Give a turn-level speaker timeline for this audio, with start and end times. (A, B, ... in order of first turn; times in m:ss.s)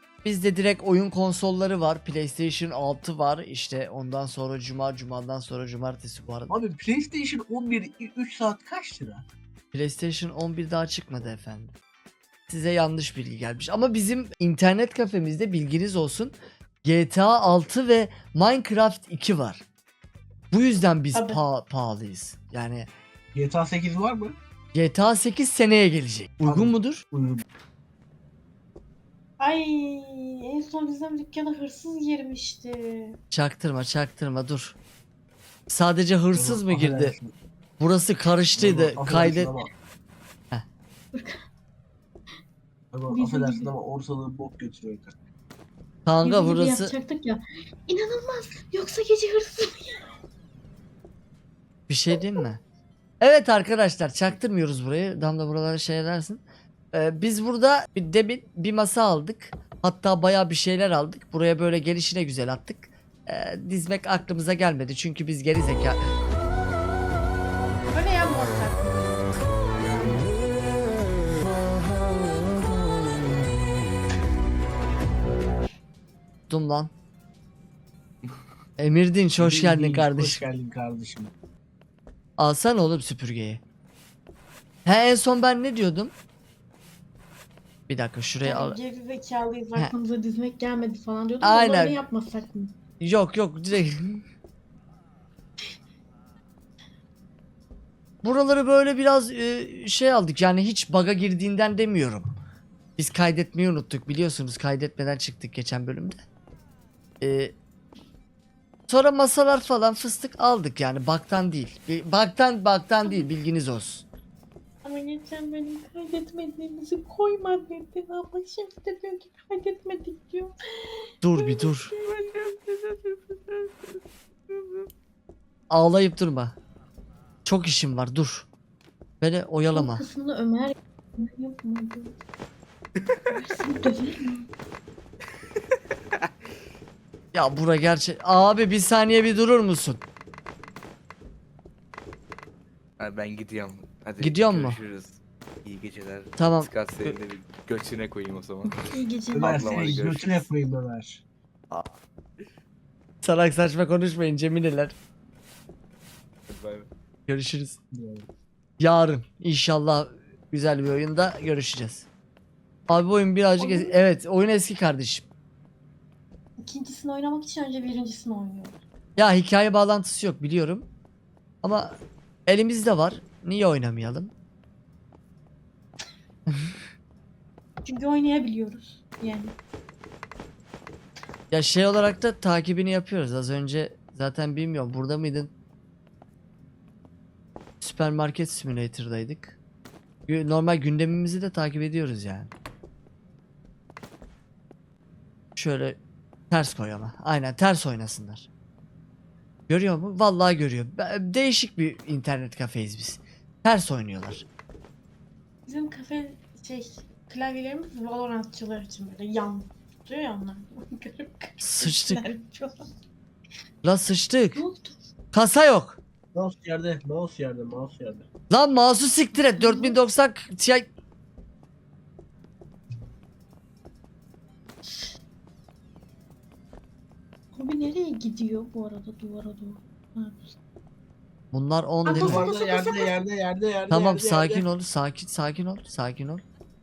0:00.2-0:06.6 A
0:06.5-0:09.2 B
0:09.7-0:11.7 A
0:12.5-0:16.3 A
0:16.8-0:19.6 A
0:20.5-0:22.9 A
0:21.1-0:21.4 C
0:23.3-0:24.3 B
0:24.7-0:27.0 A
0:26.4-0:27.4 B
0:29.4-0:33.2 C
0:33.3-0:34.8 A
0:35.7-0:37.1 A
0:36.3-0:37.3 B
0:37.8-0:39.5 A
0:38.6-0:39.7 B
0:41.1-0:41.4 C
0:42.9-0:45.2 B
0:43.1-0:43.7 C
0:46.0-0:46.9 A
0:46.2-0:50.1 C
0:51.9-0:52.6 A
0:53.2-0:56.4 A
0:56.9-1:06.0 A
1:07.9-1:10.4 C
1:16.5-1:16.9 A
1:18.8-1:20.4 A
1:19.4-1:21.3 B
1:22.4-1:23.6 A
1:24.8-1:26.1 A
1:27.9-1:28.8 A
1:28.4-1:32.7 C
1:31.4-1:32.0 A
1:33.0-1:34.2 A
1:38.2-1:42.3 A
1:43.0-1:46.2 A
1:47.2-1:47.5 A
1:48.9-1:54.0 A
1:54.8-2:03.7 C
2:01.2-2:01.9 A
2:05.7-2:06.5 A
2:07.4-2:08.5 A
2:09.2-2:10.0 A
2:09.7-2:12.2 C
2:13.3-2:14.5 C
2:17.3-2:20.0 A
2:23.0-2:30.4 D
2:24.2-2:24.8 A
2:26.4-2:26.7 A
2:28.7-2:30.0 C
2:29.3-2:31.2 B
2:33.2-2:34.9 A
2:36.5-2:36.9 D
2:37.3-2:37.8 A
2:37.9-2:38.2 B
2:38.8-2:42.1 A
2:42.9-2:45.2 A
2:43.6-2:44.0 C
2:46.6-2:48.8 C
2:49.2-2:50.8 A
2:51.6-2:54.3 A
2:57.8-2:59.5 C
3:01.5-3:05.5 A
3:07.8-3:09.6 A
3:10.3-3:12.5 A
3:15.6-3:16.0 A
3:16.5-3:18.5 A
3:19.7-3:24.4 A
3:25.7-3:32.9 C
3:31.6-3:32.2 A
3:33.8-3:34.6 A
3:34.5-3:35.0 C
3:35.3-3:36.0 A
3:36.3-3:38.2 B
3:38.5-3:40.9 A
3:39.4-3:40.0 C
3:44.8-3:45.1 C
3:47.5-3:50.6 C
3:51.5-3:52.5 A
3:52.0-3:53.2 C
3:52.1-3:54.6 B
3:53.9-3:56.4 A